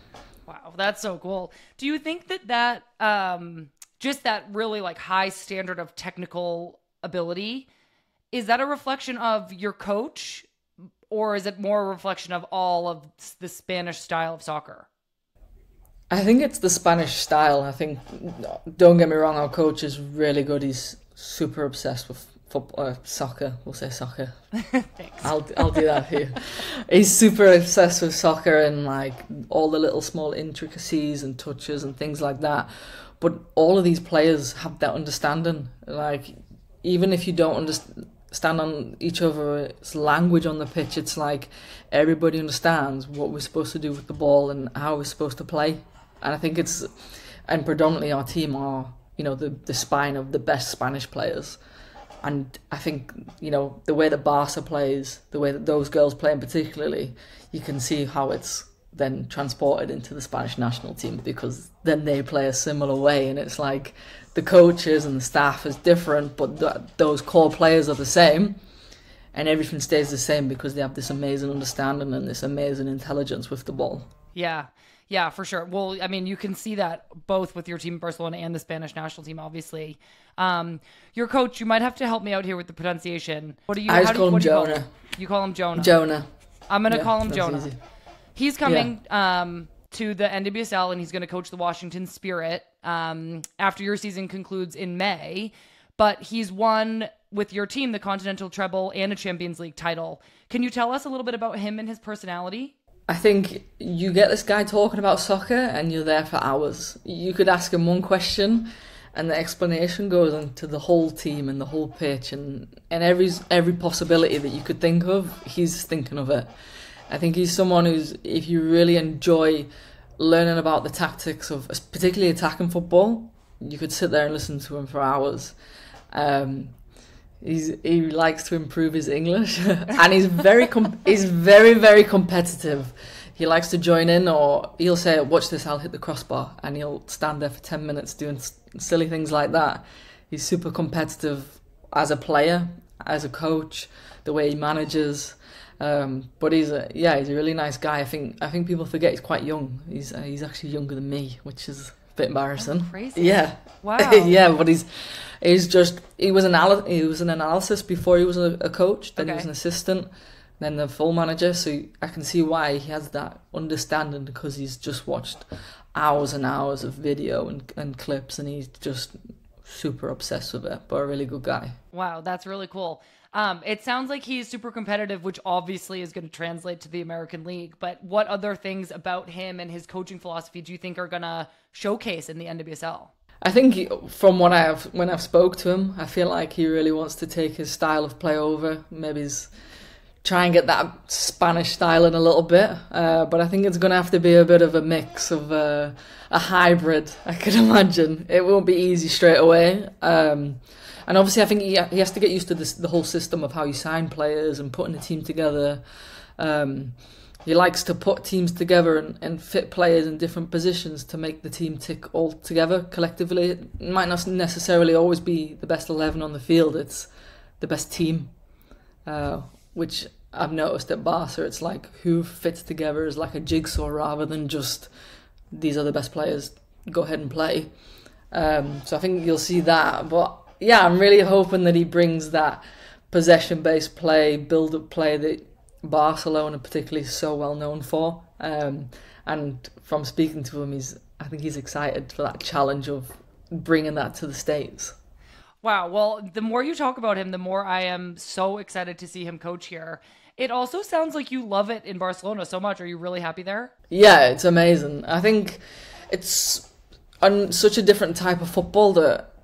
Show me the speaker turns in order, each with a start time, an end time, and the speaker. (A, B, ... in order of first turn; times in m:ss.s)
0:00.5-0:07.7 A
0:08.3-0:10.5 A
0:11.1-0:14.9 A
0:16.1-0:24.3 B
0:24.6-0:25.8 A
0:25.2-0:51.6 B
0:52.2-1:08.6 B
1:09.3-1:14.1 B
1:14.3-1:26.0 A
1:23.9-1:24.9 B
1:25.8-1:26.3 B
1:26.7-1:27.7 A
1:26.9-1:27.8 B
1:28.3-1:42.7 A
1:28.6-1:28.9 B
1:43.1-1:56.5 B
1:57.1-2:05.6 B
2:06.1-2:06.7 B
2:07.4-2:34.9 B
2:32.6-2:34.4 A
2:35.4-2:40.1 B
2:39.2-2:39.5 A
2:40.6-2:51.8 B
2:51.9-3:03.1 A
3:03.4-3:09.5 B
3:10.2-3:25.8 B
3:26.4-3:37.1 B
3:37.6-3:38.3 B
3:39.0-3:44.9 B
3:45.5-3:47.7 B
3:48.3-4:04.9 B
4:05.6-4:13.7 A
4:13.9-4:16.7 B
4:17.2-4:19.3 B